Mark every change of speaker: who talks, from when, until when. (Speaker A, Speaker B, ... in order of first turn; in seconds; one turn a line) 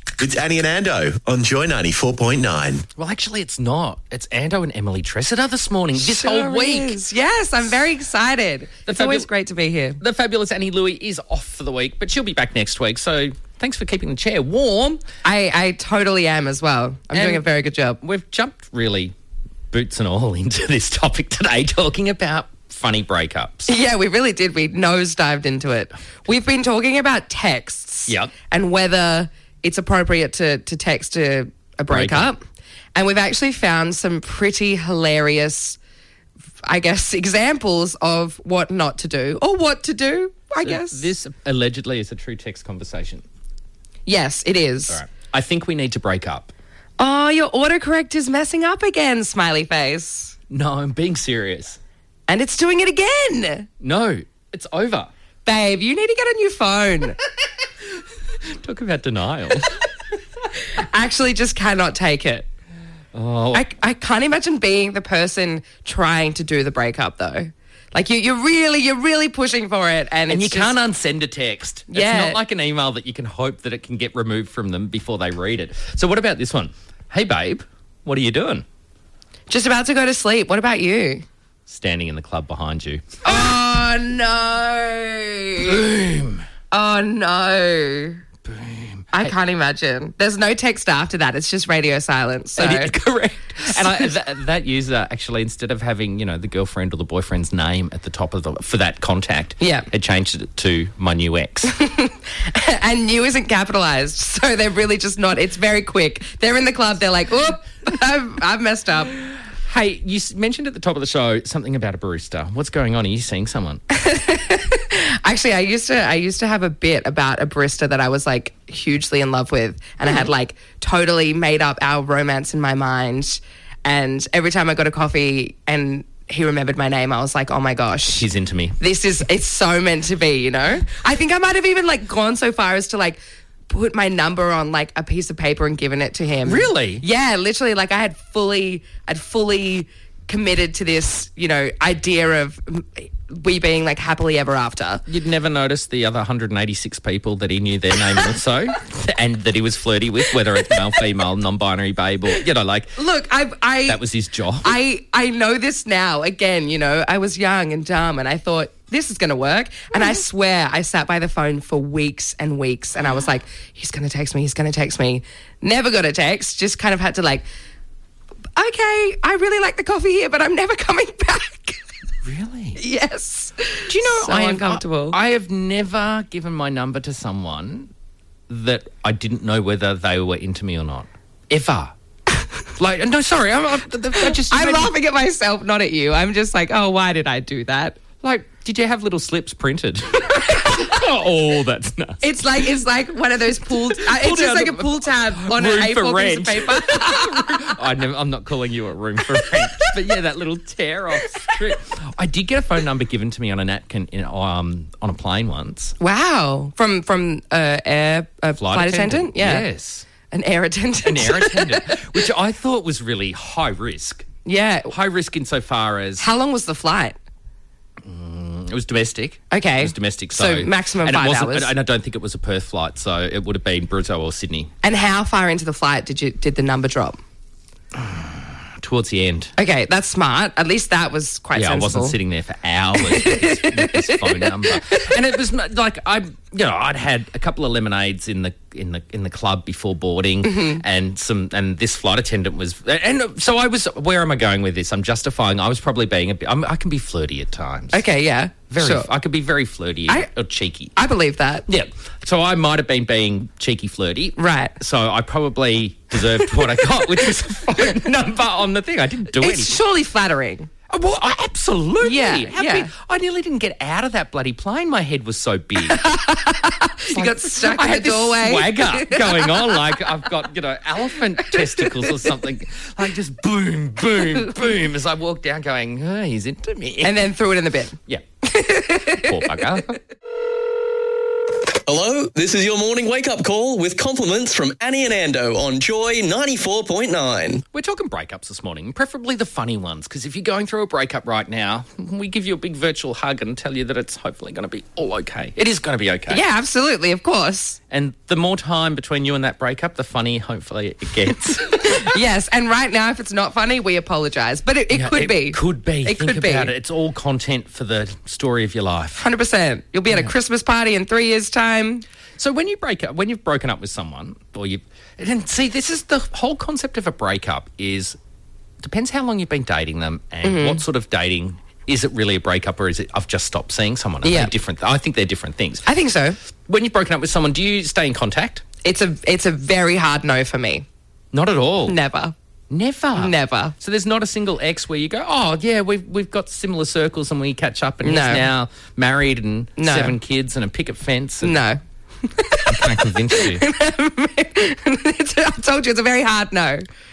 Speaker A: 0.2-2.8
Speaker B: 3.0-7.0
Speaker C: 6.0-10.0
Speaker B: 8.9-9.3
Speaker B: 10.0-15.0
Speaker C: 15.2-18.0
Speaker B: 17.1-17.4
Speaker B: 18.0-19.1
Speaker B: 19.7-23.7
Speaker C: 23.7-32.4
Speaker B: 28.1-28.3
Speaker B: 31.9-32.3
Speaker C: 32.9-35.8
Speaker C: 36.6-41.1
Speaker B: 40.6-43.2
Speaker C: 44.0-45.0
Speaker B: 44.9-46.5
Speaker C: 47.0-50.3
Speaker B: 50.5-51.8
Speaker C: 52.3-53.7
Speaker B: 53.8-55.1
Speaker C: 55.4-57.2
Speaker B: 58.4-59.8
Speaker C: 60.5-62.5
Speaker B: 63.1-63.6
Speaker C: 63.5-70.8
Speaker B: 70.3-78.6
Speaker C: 71.9-72.4
Speaker C: 79.5-81.2
Speaker B: 81.7-83.5
Speaker C: 83.2-85.8
Speaker B: 85.6-86.4
Speaker C: 86.7-88.2
Speaker B: 88.4-89.3
Speaker C: 89.1-92.9
Speaker B: 92.6-101.7
Speaker C: 99.6-99.9
Speaker C: 101.7-109.1
Speaker B: 109.6-113.8
Speaker C: 113.9-128.3
Speaker B: 128.1-128.8
Speaker C: 128.8-133.2
Speaker C: 133.7-145.0
Speaker B: 136.4-137.0
Speaker B: 145.1-153.0
Speaker C: 153.0-154.0
Speaker B: 153.9-154.8
Speaker C: 154.6-167.4
Speaker C: 168.6-171.8
Speaker B: 172.2-172.8
Speaker C: 172.8-175.2
Speaker B: 173.9-177.9
Speaker B: 178.5-181.9
Speaker B: 182.7-184.9
Speaker C: 184.2-188.0
Speaker B: 188.2-192.7
Speaker C: 192.2-197.7
Speaker B: 193.7-205.9
Speaker C: 206.0-209.7
Speaker B: 208.6-210.1
Speaker C: 210.3-212.1
Speaker B: 211.0-214.3
Speaker C: 214.4-214.9
Speaker B: 214.9-216.2
Speaker C: 216.2-217.2
Speaker B: 218.0-224.7
Speaker C: 219.5-221.7
Speaker C: 224.8-227.2
Speaker B: 227.9-229.5
Speaker C: 229.6-232.2
Speaker B: 231.5-248.1
Speaker C: 233.0-235.1
Speaker C: 240.4-240.8
Speaker C: 247.9-249.1
Speaker B: 248.7-250.9
Speaker C: 250.9-251.7
Speaker B: 251.7-259.8
Speaker C: 254.4-254.7
Speaker C: 259.4-260.7
Speaker B: 260.9-266.1
Speaker C: 262.0-262.9
Speaker C: 265.9-269.6
Speaker B: 267.1-277.3
Speaker C: 277.0-277.9
Speaker B: 278.1-280.0
Speaker C: 278.5-279.6
Speaker D: 281.7-287.6
Speaker B: 287.7-296.4
Speaker C: 296.3-297.8
Speaker B: 297.9-302.2
Speaker C: 301.7-306.7
Speaker B: 304.9-309.2
Speaker C: 309.2-312.0
Speaker B: 312.4-318.2
Speaker B: 318.8-325.8
Speaker C: 320.4-320.8
Speaker C: 324.2-324.5
Speaker C: 325.9-326.4
Speaker B: 326.7-328.6
Speaker C: 328.8-330.9
Speaker B: 331.3-331.9
Speaker C: 331.9-332.3
Speaker B: 332.7-341.6
Speaker C: 333.2-333.7
Speaker C: 338.0-338.5
Speaker C: 339.8-340.1
Speaker C: 341.4-346.8
Speaker B: 342.7-343.6